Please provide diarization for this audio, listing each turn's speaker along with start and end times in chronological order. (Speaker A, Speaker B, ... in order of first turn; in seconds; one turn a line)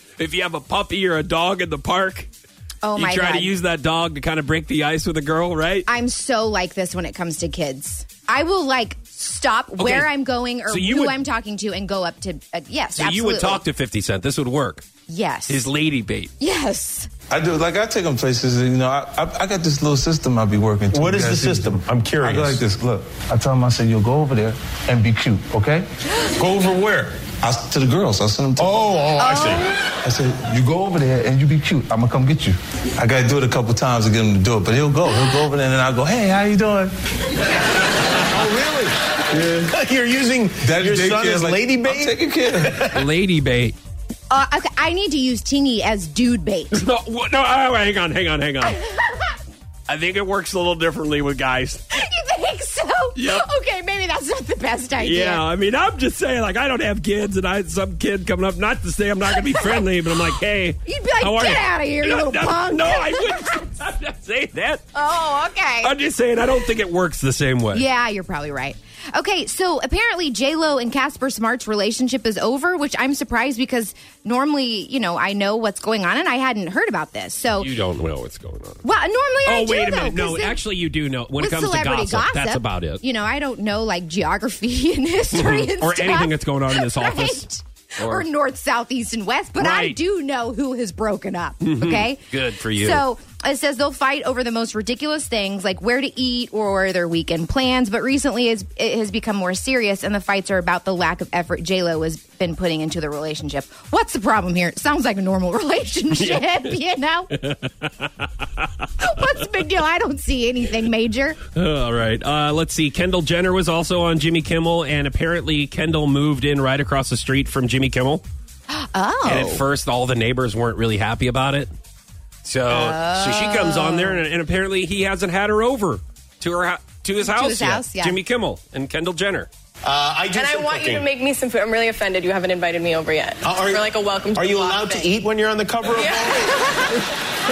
Speaker A: 0.2-2.3
Speaker B: 2.8-3.5
Speaker A: 3.0-5.9
Speaker B: 5.9-13.6
Speaker A: 9.8-10.1
Speaker A: 10.7-11.2
Speaker A: 13.0-14.8
Speaker B: 15.1-15.7
Speaker A: 15.5-16.3
Speaker B: 16.4-17.1
Speaker C: 17.3-25.9
Speaker D: 20.9-22.6
Speaker D: 26.4-27.1
Speaker C: 27.4-28.8
Speaker D: 28.6-29.7
Speaker B: 29.2-29.7
Speaker C: 30.0-36.9
Speaker D: 38.3-38.9
Speaker C: 39.3-39.7
Speaker D: 39.6-43.0
Speaker C: 40.6-42.9
Speaker A: 42.9-43.8
Speaker B: 44.3-46.8
Speaker A: 46.7-48.8
Speaker B: 48.7-49.3
Speaker A: 49.9-52.0
Speaker B: 51.9-55.5
Speaker A: 53.1-53.5
Speaker A: 55.0-64.9
Speaker B: 59.3-59.9
Speaker B: 60.9-63.6
Speaker B: 65.0-65.9
Speaker A: 65.8-67.9
Speaker B: 67.7-77.7
Speaker A: 77.6-78.8
Speaker B: 78.8-80.6
Speaker A: 79.5-83.0
Speaker B: 81.4-107.3
Speaker A: 85.3-88.3
Speaker A: 89.6-90.0
Speaker A: 91.6-93.1
Speaker A: 106.1-106.8
Speaker A: 107.4-108.7
Speaker B: 109.0-111.4
Speaker A: 111.5-118.2
Speaker B: 118.7-119.6
Speaker A: 119.2-121.7
Speaker A: 122.4-129.5
Speaker B: 122.7-124.2
Speaker B: 127.2-128.2
Speaker D: 129.8-131.1
Speaker E: 130.3-135.2
Speaker D: 133.4-136.7
Speaker E: 135.9-136.3
Speaker B: 136.3-136.9